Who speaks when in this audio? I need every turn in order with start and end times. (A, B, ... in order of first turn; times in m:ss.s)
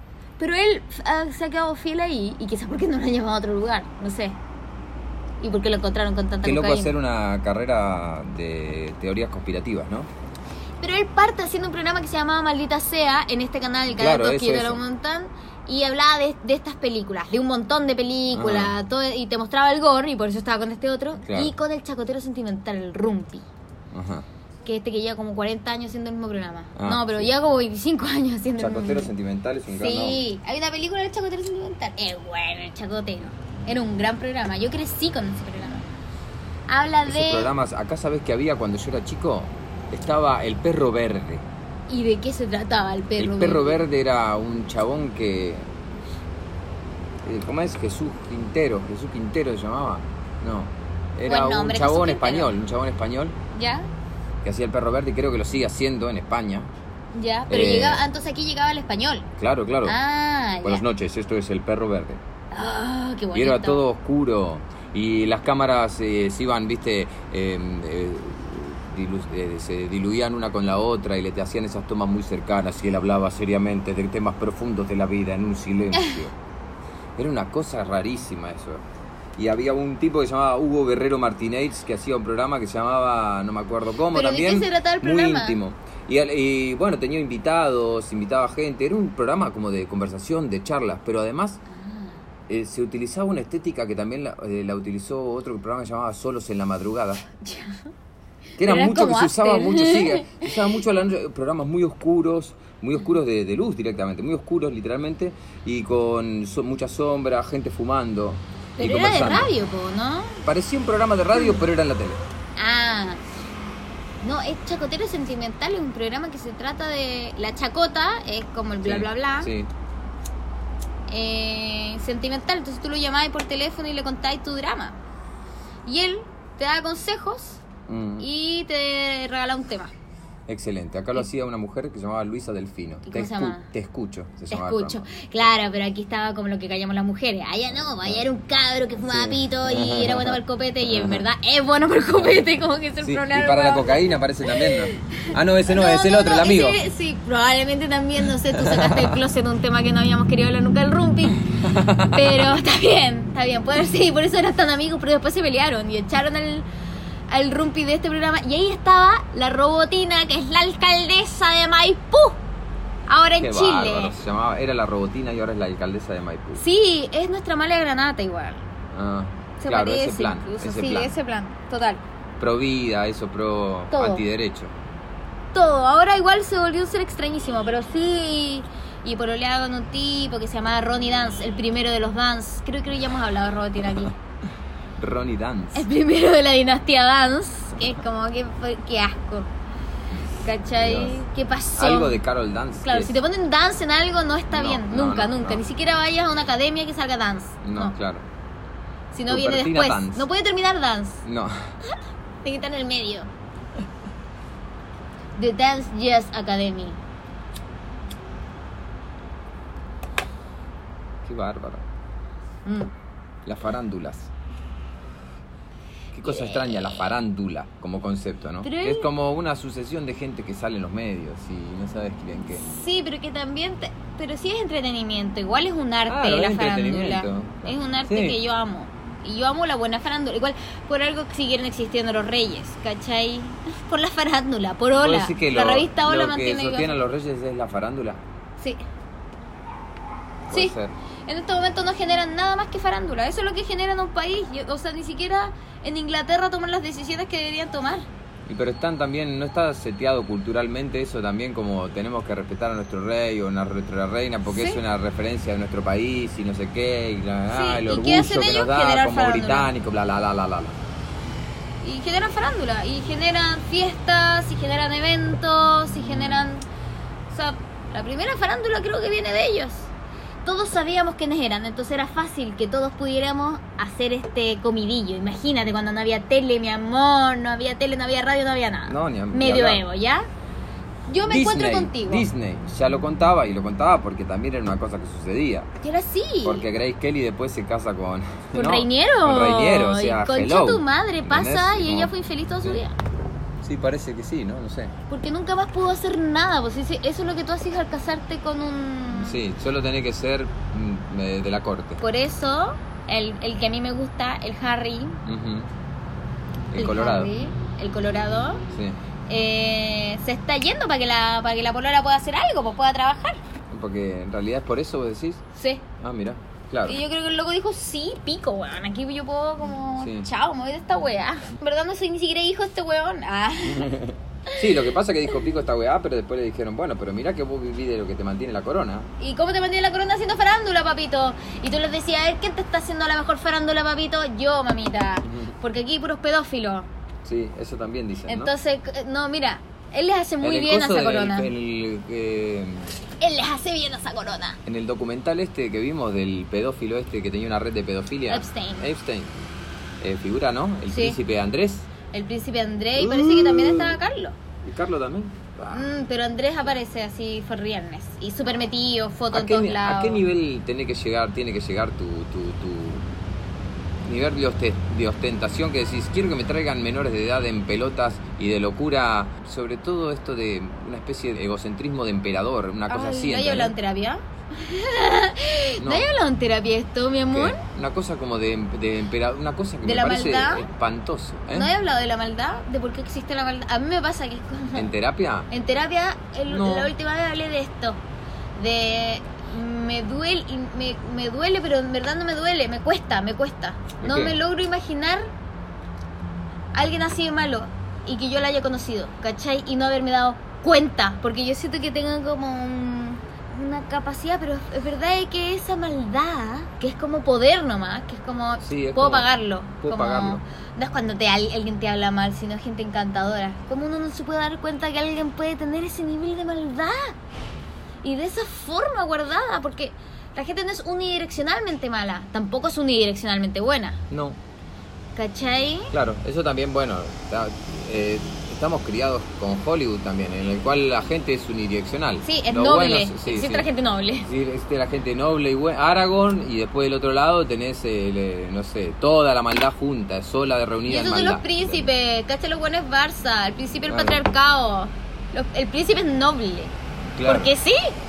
0:00.4-0:04.4 A
0:05.4-0:06.9 A
0:06.4-0:10.1 B
0:10.8-0:23.5 A
0:13.9-0:14.8 B
0:18.3-0:18.8 B
0:21.2-0:21.5 B
0:23.9-0:24.3 B
0:24.6-0:29.1 A
0:26.8-0:27.3 B
0:28.6-0:30.2 B
0:29.8-0:35.9 A
0:36.7-0:37.5 A
0:37.1-0:41.4 B
0:41.9-0:43.8 A
0:43.2-0:45.7 B
0:47.2-0:53.4 B
0:51.3-0:52.6 A
0:53.5-0:53.9 A
0:54.4-0:56.7 B
0:57.1-0:59.3 A
0:57.5-0:58.1 B
0:59.4-1:00.0 B
0:59.8-1:00.8 A
1:00.6-1:02.2 B
1:02.5-1:03.8 A
1:03.3-1:16.4 B
1:17.2-1:18.8 B
1:19.4-1:31.6 B
1:24.1-1:25.6 A
1:31.7-1:32.2 A
1:32.5-1:37.2 B
1:37.4-1:37.9 A
1:38.6-1:40.6 A
1:38.6-1:49.5 B
1:48.8-1:50.4 A
1:50.4-1:52.2 B
1:52.6-1:53.2 A
1:54.2-1:59.5 A
1:58.8-1:59.7 B
2:01.1-2:05.0 A
2:05.9-2:07.6 A
2:07.9-2:08.3 B
2:08.2-2:09.9 A
2:10.5-2:15.0 B
2:13.0-2:13.7 A
2:14.5-2:36.7 A
2:19.1-2:21.2 B
2:23.0-2:26.8 B
2:28.5-2:29.2 B
2:31.5-2:32.5 B
2:37.3-2:42.4 A
2:43.1-2:44.2 A
2:43.4-2:46.6 B
2:46.6-2:48.7 A
2:48.9-2:51.2 B
2:49.6-2:52.0 A
2:52.4-2:54.8 B
2:53.9-2:54.2 A
2:55.5-3:04.2 A
3:05.0-3:05.8 B
3:05.8-3:09.5 A
3:10.4-3:12.2 A
3:10.8-3:11.2 B
3:11.8-3:13.2 B
3:12.8-3:17.9 A
3:14.5-3:15.6 B
3:17.6-3:18.3 B
3:19.1-3:21.2 A
3:19.3-3:20.3 B
3:21.2-3:21.6 B
3:22.4-3:23.3 A
3:25.4-3:27.0 A
3:31.2-3:31.8 B
3:32.6-3:32.9 A
3:33.4-3:34.3 B
3:36.1-3:42.7 B
3:36.2-3:37.1 A
3:38.6-3:39.1 A
3:42.6-3:57.0 A
3:46.1-3:48.4 B
3:55.0-3:58.2 B
3:58.6-3:58.8 A
4:00.5-4:00.9 B
4:00.5-4:00.8 A
4:01.3-4:08.1 A
4:08.5-4:20.8 B
4:14.5-4:14.8 A
4:17.5-4:19.7 A
4:21.8-4:26.6 A
4:26.1-4:26.4 B
4:27.3-4:29.9 A
4:30.4-4:40.3 A
4:38.9-4:39.8 B
4:41.1-4:42.3 A
4:41.3-4:45.7 B
4:45.8-4:46.7 A
4:46.4-4:52.8 B
4:48.5-4:53.0 A
4:53.6-4:54.9 B
4:55.1-4:59.4 A
4:59.1-5:02.0 B
5:02.0-5:05.2 A
5:05.2-5:05.7 B
5:06.7-5:07.3 B
5:06.8-5:08.7 A
5:08.7-5:09.0 B
5:09.3-5:13.4 A
5:13.7-5:15.4 B
5:15.6-5:15.8 A
5:16.0-5:17.0 B
5:16.8-5:24.0 A
5:20.0-5:20.3 B
5:23.7-5:29.1 B
5:29.2-5:36.9 A
5:35.3-5:35.5 B
5:37.2-5:38.5 B
5:38.3-5:41.5 A
5:40.4-5:43.0 B
5:43.2-5:44.6 A
5:44.7-5:49.3 B
5:48.3-5:48.9 A
5:50.0-5:51.9 B
5:50.9-5:51.2 A
5:52.1-5:54.4 A
5:53.0-5:54.0 B
5:54.6-5:56.0 B
5:55.7-6:00.2 A
5:59.3-6:03.1 B
6:04.0-6:13.7 B
6:12.9-6:17.6 A
6:15.8-6:16.1 B
6:17.3-6:21.7 B
6:19.8-6:20.7 A
6:21.5-6:24.9 A
6:24.8-6:25.5 B
6:25.5-6:28.0 A
6:26.5-6:26.9 B
6:28.6-6:35.3 A
6:34.0-6:34.4 B
6:36.7-6:57.2 A
6:48.6-6:49.3 B
6:49.8-6:50.4 B
6:58.0-7:04.0 A
7:04.1-7:04.4 B
7:05.2-7:05.9 A
7:05.9-7:13.7 B
7:12.2-7:14.3 A
7:14.2-7:21.9 B
7:20.9-7:26.7 A
7:23.9-7:24.2 B
7:27.2-7:27.5 B
7:27.2-7:28.0 A